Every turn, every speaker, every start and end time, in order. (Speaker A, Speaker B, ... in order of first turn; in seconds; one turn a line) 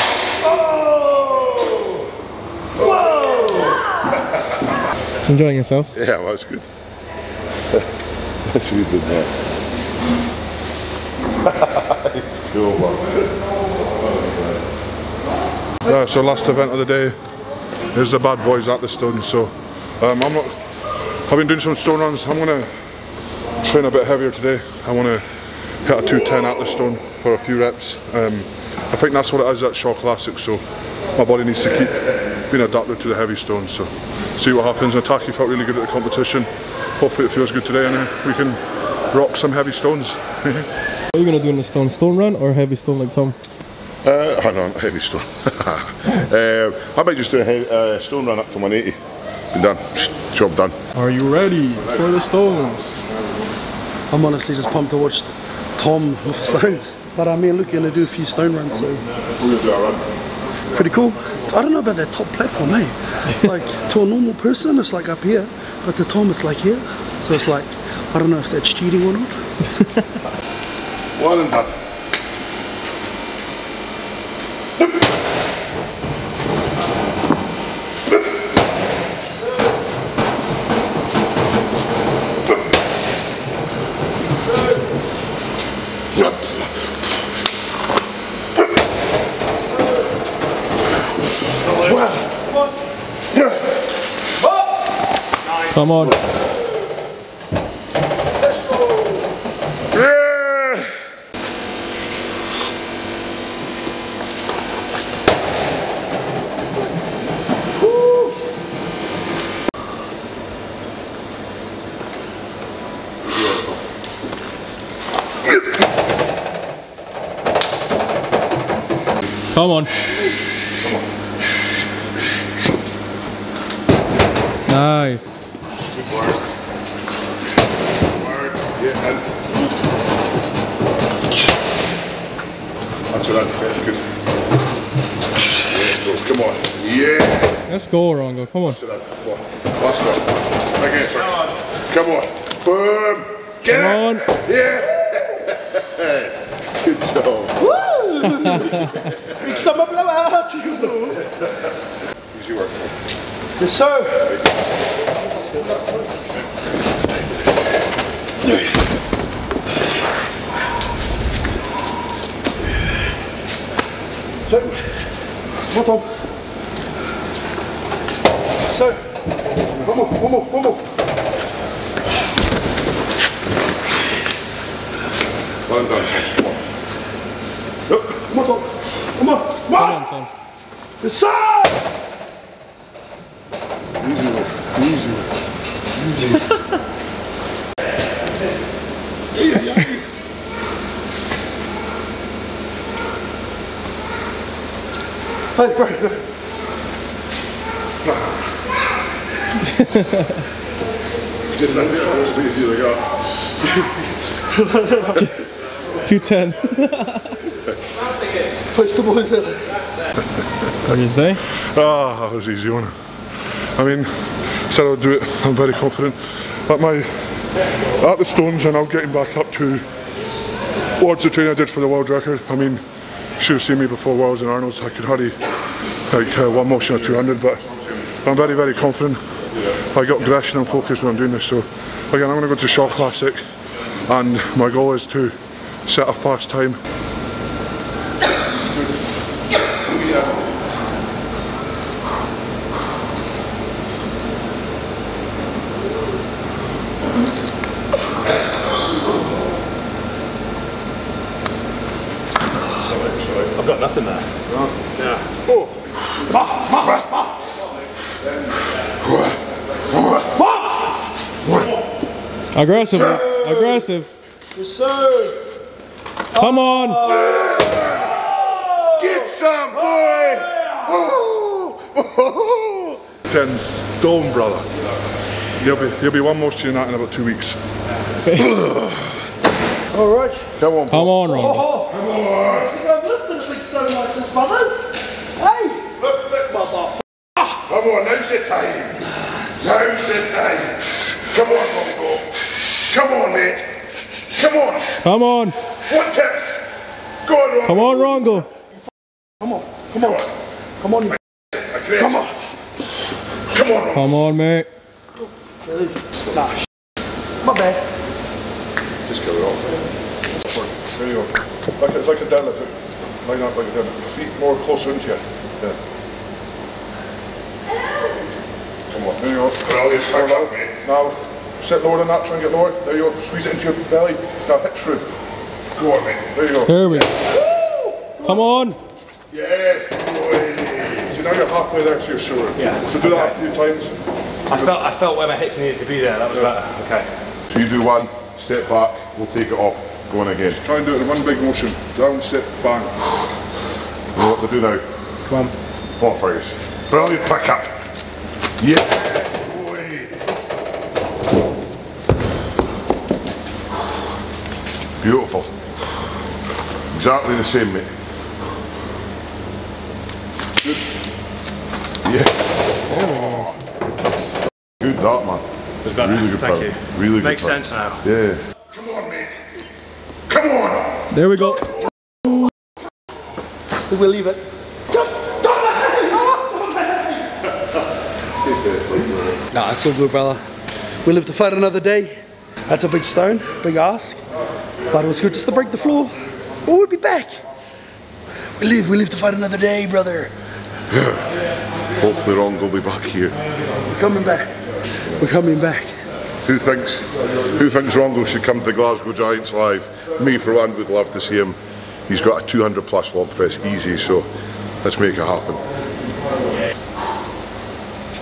Speaker A: 2.8-3.5
Speaker B: 5.2-5.9
Speaker A: 5.9-6.7
Speaker A: 8.4-9.3
Speaker A: 11.4-13.3
Speaker A: 13.9-14.6
Speaker C: 15.8-17.2
Speaker C: 17.9-20.6
Speaker C: 21.3-22.7
Speaker C: 23.6-25.2
Speaker C: 25.8-38.6
Speaker C: 39.1-40.7
Speaker B: 41.1-43.4
Speaker A: 44.0-49.0
Speaker A: 49.5-50.8
Speaker B: 50.9-52.8
Speaker A: 52.9-53.2
Speaker D: 54.1-59.0
Speaker A: 59.3-60.0
Speaker D: 60.7-69.4
Speaker A: 71.2-71.8
Speaker A: 86.1-86.7
Speaker A: 91.7-92.3
Speaker A: 93.3-93.6
Speaker E: 95.4-95.8
Speaker B: 95.7-96.2
Speaker D: 98.4-99.3
Speaker A: 99.9-100.9
Speaker D: 107.8-108.3
Speaker A: 113.3-113.7
Speaker B: 119.5-120.0
Speaker A: 120.8-121.0
Speaker B: 124.7-125.3
Speaker A: 125.9-126.4
Speaker A: 128.1-129.5
Speaker A: 133.1-134.0
Speaker A: 135.7-137.6
Speaker B: 137.7-138.8
Speaker A: 138.7-147.7
Speaker B: 143.7-144.3
Speaker D: 147.6-151.2
Speaker A: 148.6-149.6
Speaker A: 152.3-153.0
Speaker D: 153.6-154.3
Speaker D: 155.5-156.0
Speaker D: 164.5-164.8
Speaker D: 165.7-166.1
Speaker D: 168.6-169.0
Speaker D: 169.7-170.8
Speaker A: 175.7-176.5
Speaker D: 177.9-180.0
Speaker B: 179.7-180.3
Speaker D: 181.0-181.8
Speaker A: 184.0-185.2
Speaker A: 186.1-186.4
Speaker A: 189.4-190.0
Speaker D: 195.5-196.2
Speaker B: 199.7-200.4
Speaker A: 201.5-203.1
Speaker D: 204.6-205.1
Speaker B: 206.0-207.4
Speaker D: 208.7-209.7
Speaker B: 210.8-211.4
Speaker C: 211.5-212.9
Speaker C: 213.7-217.1
Speaker C: 218.0-219.9
Speaker C: 221.0-222.8
Speaker C: 223.4-225.4
Speaker C: 226.1-227.6
Speaker C: 228.2-229.2
Speaker C: 229.9-233.4
Speaker C: 234.1-236.8
Speaker A: 239.7-240.4
Speaker E: 252.8-254.3
Speaker E: 255.0-255.7
Speaker A: 259.0-260.3
Speaker D: 260.3-260.9
Speaker A: 261.4-261.7
Speaker B: 262.5-264.1
Speaker D: 263.2-263.6
Speaker D: 264.5-265.6
Speaker B: 266.3-267.1
Speaker D: 266.3-267.5
Speaker A: 267.1-267.8
Speaker D: 268.6-269.3
Speaker A: 269.0-273.0
Speaker D: 270.0-270.9
Speaker C: 273.3-274.7
Speaker C: 275.6-277.6
Speaker B: 278.3-278.6
Speaker A: 278.4-278.9
Speaker D: 279.9-280.5
Speaker A: 280.6-282.7
Speaker B: 280.9-281.7
Speaker D: 281.3-286.0
Speaker A: 286.0-286.4
Speaker D: 286.5-287.0
Speaker A: 287.6-289.1
Speaker A: 289.6-293.7
Speaker A: 294.2-295.0
Speaker B: 295.0-295.6
Speaker A: 295.8-296.6
Speaker A: 297.2-298.3
Speaker B: 297.6-298.5
Speaker D: 299.4-300.2
Speaker D: 300.8-301.1
Speaker A: 301.6-302.2
Speaker D: 302.0-302.3
Speaker A: 303.5-304.1
Speaker B: 303.9-304.7
Speaker D: 305.6-306.5
Speaker D: 307.4-307.8
Speaker A: 309.1-309.7
Speaker C: 310.5-315.8
Speaker A: 318.9-320.7
Speaker C: 319.1-325.1
Speaker A: 325.8-326.3
Speaker C: 326.3-327.0
Speaker B: 326.6-327.1
Speaker D: 327.3-328.2
Speaker B: 328.2-328.8
Speaker A: 329.3-331.1
Speaker C: 331.1-333.9
Speaker E: 332.6-333.4
Speaker E: 334.5-337.1
Speaker A: 337.5-340.6
Speaker C: 340.5-342.9
Speaker A: 344.1-344.8
Speaker E: 345.3-345.5
Speaker A: 346.0-347.7
Speaker A: 348.6-350.1
Speaker A: 355.0-355.5
Speaker A: 356.9-357.9
Speaker A: 362.0-362.3
Speaker B: 362.9-363.5
Speaker A: 364.8-365.4
Speaker E: 365.8-368.0
Speaker A: 366.0-369.3
Speaker A: 370.3-371.0
Speaker B: 371.1-371.7
Speaker D: 373.9-377.2
Speaker A: 378.4-379.3
Speaker D: 379.5-380.4
Speaker D: 381.0-384.2
Speaker D: 384.9-387.4
Speaker D: 388.6-390.3
Speaker A: 390.9-391.3
Speaker A: 391.9-393.3
Speaker D: 393.8-394.5
Speaker D: 395.2-395.9
Speaker A: 396.4-401.6
Speaker A: 402.1-404.3
Speaker A: 404.8-405.7